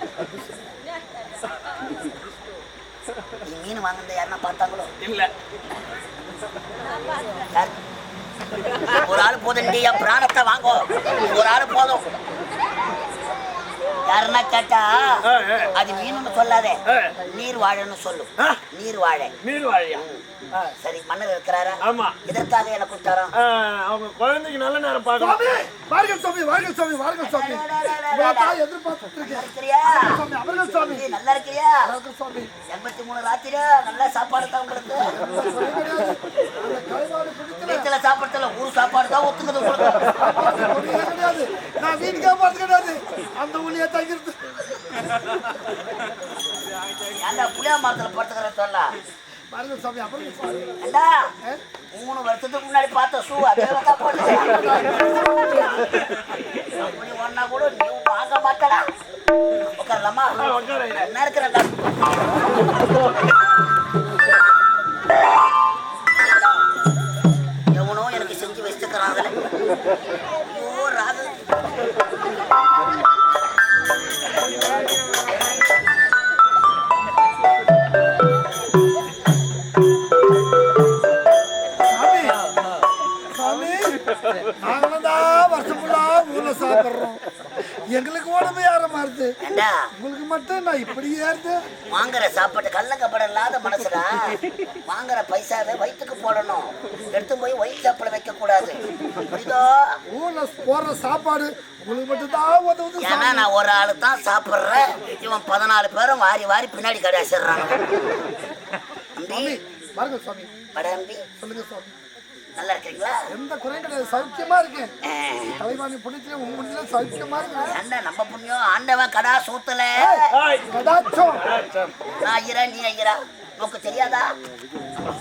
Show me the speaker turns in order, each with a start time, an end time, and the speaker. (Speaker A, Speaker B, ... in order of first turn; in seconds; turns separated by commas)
Speaker A: 3.5-4.9, Speaker B: 5.0-5.3, Speaker A: 9.0-12.0, Speaker A: 14.1-15.2, Speaker B: 15.3-15.7, Speaker A: 15.8-19.3, Speaker B: 16.9-17.1, Speaker B: 19.4-20.0, Speaker A: 20.8-23.3, Speaker B: 21.8-22.1, Speaker B: 23.4-25.4, Speaker C: 25.2-31.0, Speaker A: 27.2-28.6, Speaker A: 29.2-30.1, Speaker A: 30.8-31.8, Speaker C: 31.8-32.5, Speaker A: 32.7-35.1, Speaker C: 35.1-37.9, Speaker A: 37.6-40.1, Speaker C: 40.2-44.4, Speaker A: 47.2-48.9, Speaker C: 49.5-50.8, Speaker A: 50.8-51.1, Speaker A: 51.9-54.9, Speaker C: 54.2-55.8, Speaker A: 56.8-58.9, Speaker A: 59.8-60.4, Speaker B: 60.4-61.1, Speaker A: 60.9-61.7, Speaker A: 67.7-69.3, Speaker A: 70.5-71.3, Speaker C: 81.8-82.4, Speaker C: 83.3-84.0, Speaker C: 84.6-87.2, Speaker C: 87.9-89.3, Speaker A: 89.4-89.9, Speaker C: 90.0-91.6, Speaker A: 91.9-94.3, Speaker A: 94.9-98.8, Speaker A: 99.3-100.0, Speaker C: 100.1-103.5, Speaker A: 103.0-108.0, Speaker A: 109.2-109.6, Speaker C: 109.3-110.5, Speaker A: 110.7-111.2, Speaker C: 111.4-111.9, Speaker A: 112.6-113.2, Speaker C: 113.3-114.9, Speaker A: 115.0-115.6, Speaker C: 115.6-117.7, Speaker A: 117.6-120.3, Speaker C: 120.0-121.4, Speaker B: 120.3-120.6, Speaker B: 121.4-121.9, Speaker A: 122.2-124.3